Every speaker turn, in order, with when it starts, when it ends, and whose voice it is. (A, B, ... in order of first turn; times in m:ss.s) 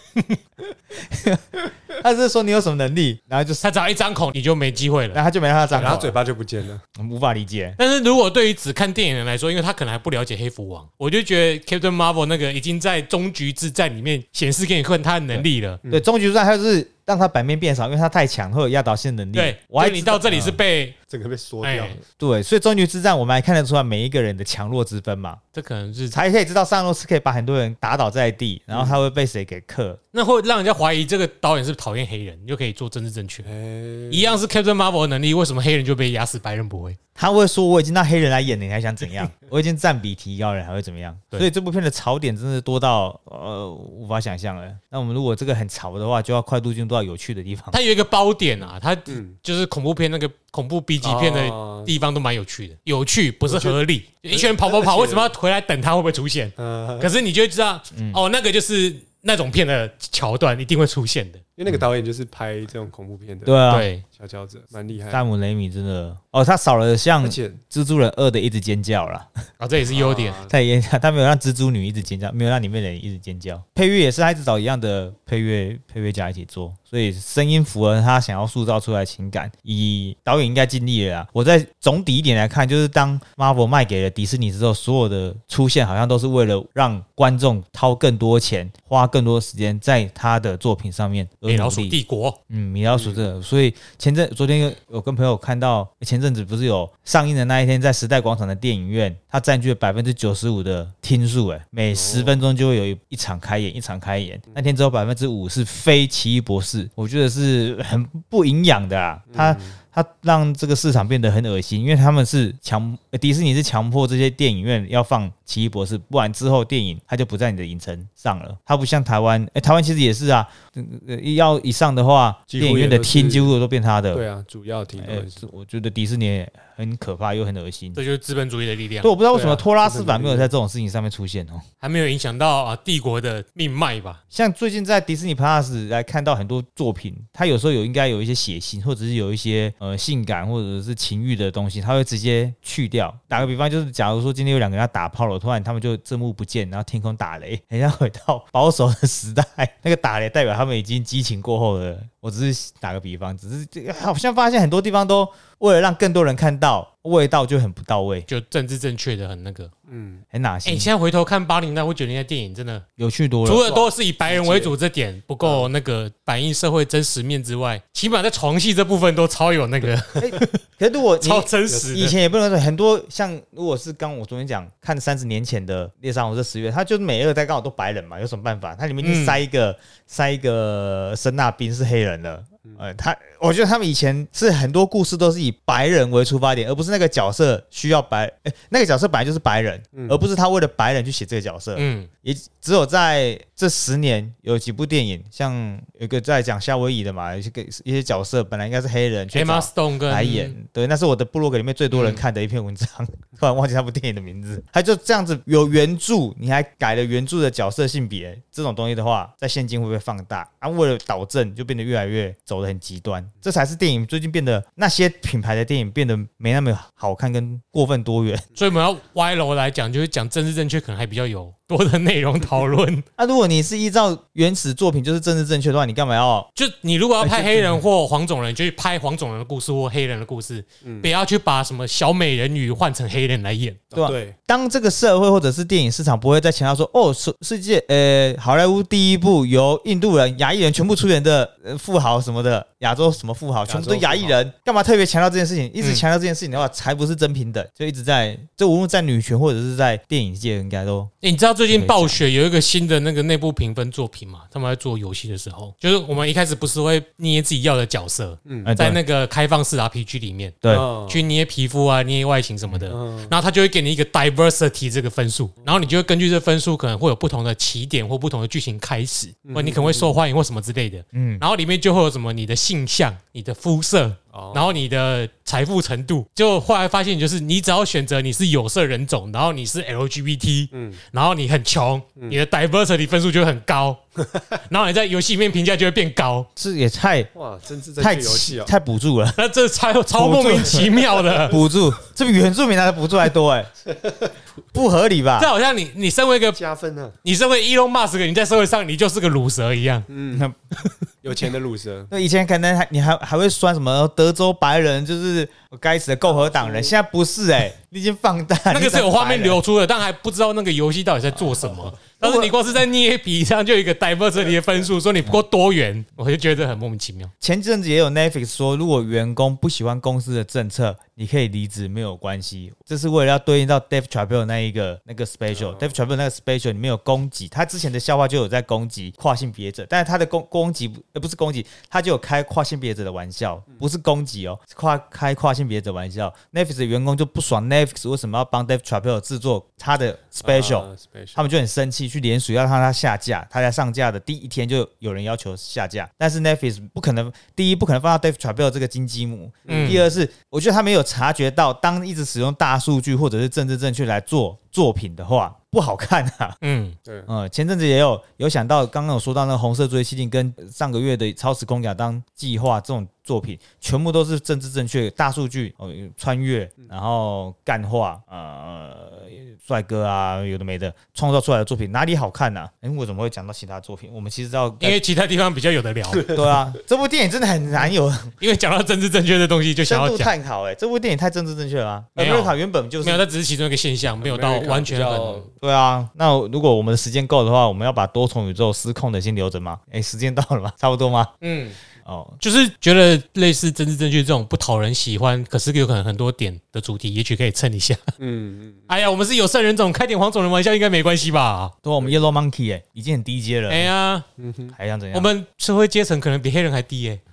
0:01.0-0:03.6 A
0:03.6-0:05.2 B
0:05.1-0:06.2 A
0:05.7-0:06.8 C
0:07.0-0:07.8 A
0:07.8-0:15.8 B
0:15.3-0:20.6 A
0:19.3-0:21.0 B
0:21.1-0:22.0 C
0:21.6-0:22.0 B
0:22.2-0:25.4 A
0:25.5-0:26.2 B
0:26.1-0:30.0 A
0:28.7-0:29.0 C
0:30.1-0:33.5 B
0:33.4-0:34.4 C
0:34.1-0:37.0 B
0:37.2-0:47.8 A
0:47.7-1:01.4 B
0:49.1-0:49.4 C
0:51.0-0:51.9 C
0:53.4-0:55.3 C
0:56.6-0:57.1 C
0:57.9-0:58.2 A
1:01.6-1:05.2 C
1:03.4-1:03.9 A
1:03.7-1:04.0 B
1:05.1-1:09.3 A
1:07.2-1:07.6 C
1:09.6-1:10.4 B
1:09.9-1:10.5 C
1:10.5-1:32.0 A
1:31.5-1:32.4 B
1:32.5-2:04.2 A
1:32.9-1:33.2 C
1:41.9-1:42.4 C
1:49.3-1:49.8 C
2:02.5-2:03.5 C
2:04.1-2:05.4 C
2:05.0-2:08.0 A
2:08.0-2:09.1 B
2:09.0-2:11.6 A
2:09.3-2:10.5 C
2:11.8-2:14.2 B
2:14.3-2:38.3 A
2:38.3-2:39.7 B
2:39.9-2:40.2 C
2:40.3-2:40.9 A
2:40.6-2:42.8 B
2:43.0-2:43.7 A
2:43.4-2:50.6 B
2:43.6-2:44.7 C
2:45.4-2:45.7 C
2:50.2-3:38.4 A
2:51.2-2:52.1 B
2:51.7-2:51.9 C
2:59.0-2:59.4 B
3:09.9-3:10.2 C
3:11.8-3:12.1 B
3:19.3-3:20.5 B
3:21.9-3:22.2 B
3:38.6-3:43.0 B
3:43.2-3:46.5 A
3:46.6-3:53.8 B
3:47.2-3:47.8 A
3:50.8-3:51.1 C
3:53.9-3:54.4 C
3:53.9-4:11.1 A
4:03.7-4:04.4 C
4:11.2-4:44.0 B
4:11.7-4:12.2 A
4:18.4-4:18.7 C
4:18.6-4:19.0 A
4:20.7-4:21.2 C
4:22.9-4:23.3 C
4:25.6-4:25.9 C
4:29.4-4:30.2 C
4:31.1-4:31.4 A
4:34.3-4:34.8 C
4:40.7-4:41.0 C
4:44.5-4:46.5 B
4:46.6-4:47.3 A
4:47.3-4:48.7 C
4:48.0-4:49.4 A
4:49.4-4:51.7 B
4:50.2-4:50.9 A
4:51.2-4:51.5 C
4:51.5-4:53.7 A
4:53.9-4:54.3 C
4:54.7-4:55.5 A
4:55.4-4:56.6 B
4:56.5-4:57.2 C
4:57.2-5:00.1 B
5:00.1-5:00.4 C
5:01.2-5:02.1 C
5:02.1-5:09.6 A
5:06.2-5:06.9 C
5:08.7-5:17.3 B
5:12.2-5:12.5 A
5:17.4-5:56.6 A
5:25.5-5:26.0 C
5:40.4-5:41.4 C
5:49.6-5:50.1 C
5:49.7-5:50.0 B
5:56.6-5:57.0 B
5:57.3-6:15.0 A
6:14.8-6:16.3 B
6:16.1-6:16.4 C
6:16.3-6:18.3 A
6:18.4-6:20.3 B
6:19.8-6:23.2 A
6:22.2-6:25.5 B
6:24.2-6:25.5 C
6:25.6-6:31.3 A
6:31.4-6:31.8 B
6:32.0-6:32.4 A
6:32.4-6:38.1 B
6:38.2-6:38.9 C
6:38.9-6:41.7 B
6:41.8-6:43.9 A
6:42.0-6:42.3 C
6:43.7-6:44.2 B
6:44.4-6:44.8 C
6:44.8-6:45.3 A
6:45.1-6:47.2 B